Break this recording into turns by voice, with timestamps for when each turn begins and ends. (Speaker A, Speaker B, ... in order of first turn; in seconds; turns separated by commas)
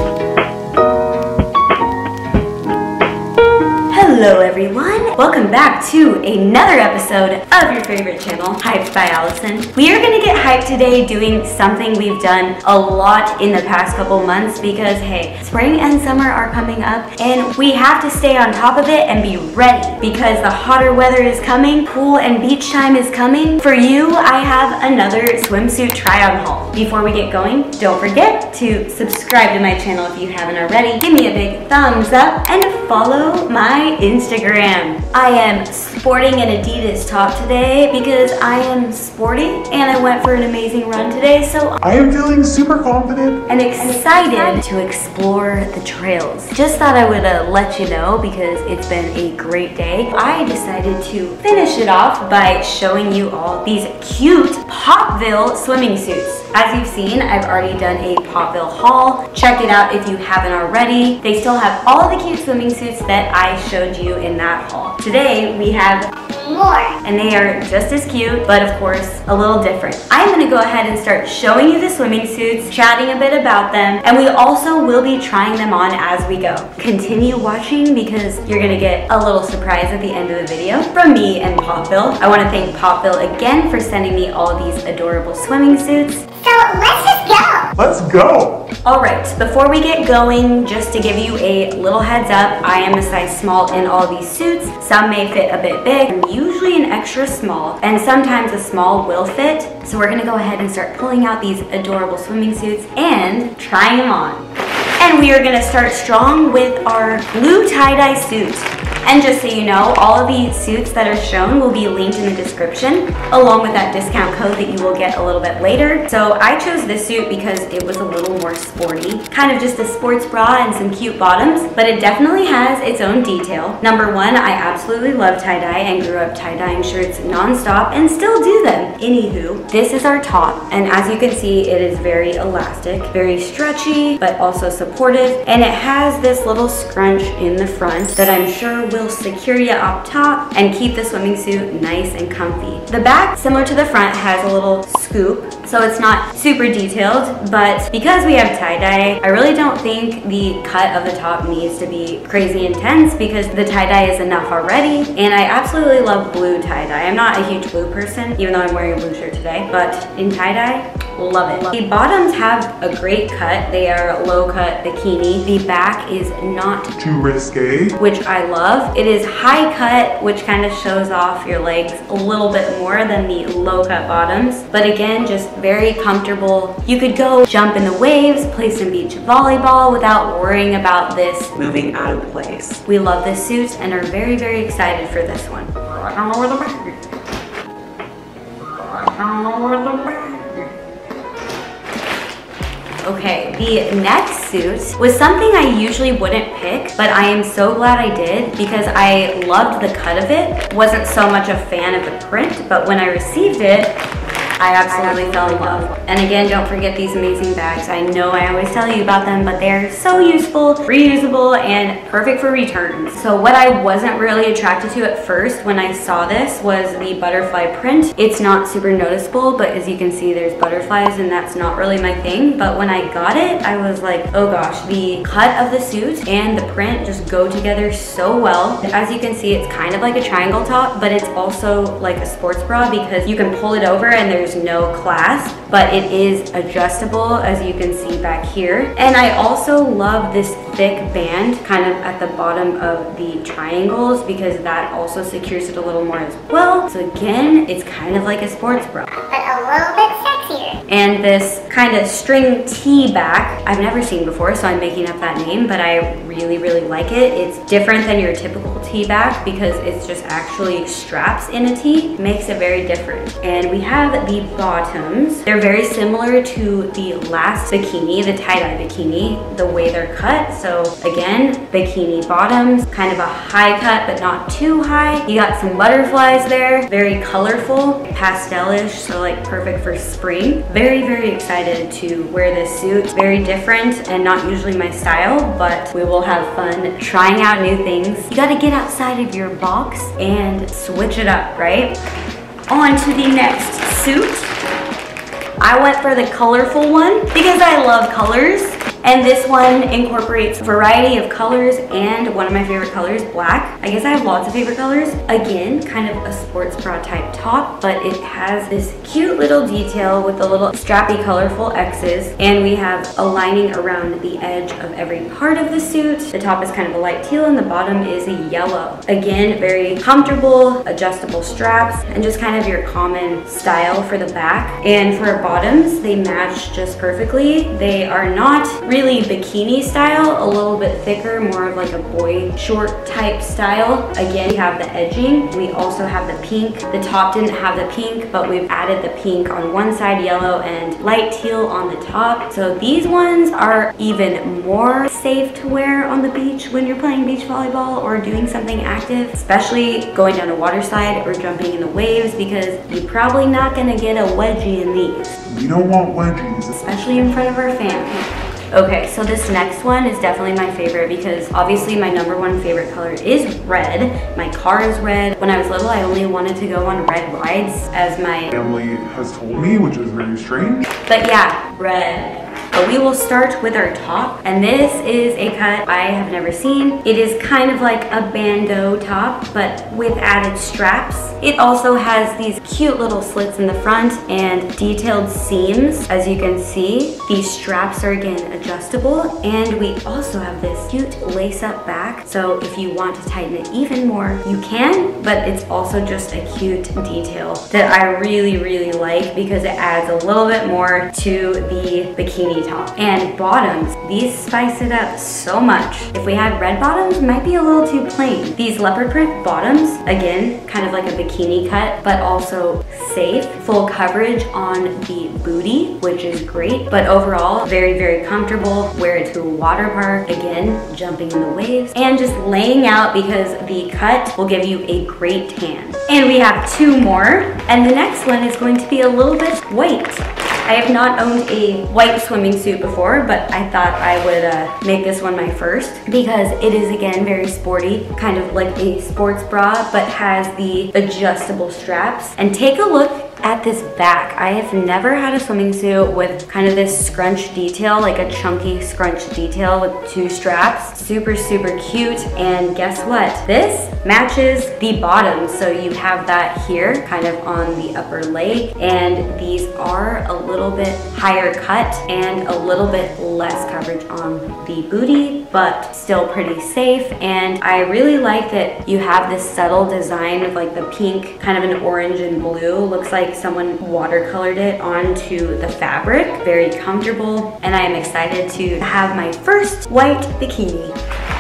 Speaker A: 3.9-41.8, Speaker B: 41.8-43.4, Speaker A: 43.5-66.1, Speaker C: 44.2-44.6, Speaker C: 66.2-67.0, Speaker A: 67.0-86.3, Speaker C: 86.4-87.7, Speaker B: 87.8-88.7, Speaker A: 88.8-104.4, Speaker A: 105.0-166.9, Speaker B: 167.0-167.9, Speaker A: 168.0-181.6, Speaker D: 181.6-182.8, Speaker A: 182.8-186.8, Speaker D: 188.9-189.7, Speaker A: 189.5-190.0, Speaker A: 193.0-204.0, Speaker A: 204.6-249.1, Speaker C: 249.1-250.8, Speaker A: 250.9-292.0, Speaker A: 292.7-294.5, Speaker A: 295.6-355.4, Speaker B: 355.5-356.7, Speaker A: 356.7-358.2, Speaker A: 358.7-368.5, Speaker B: 368.5-370.9, Speaker A: 371.1-480.9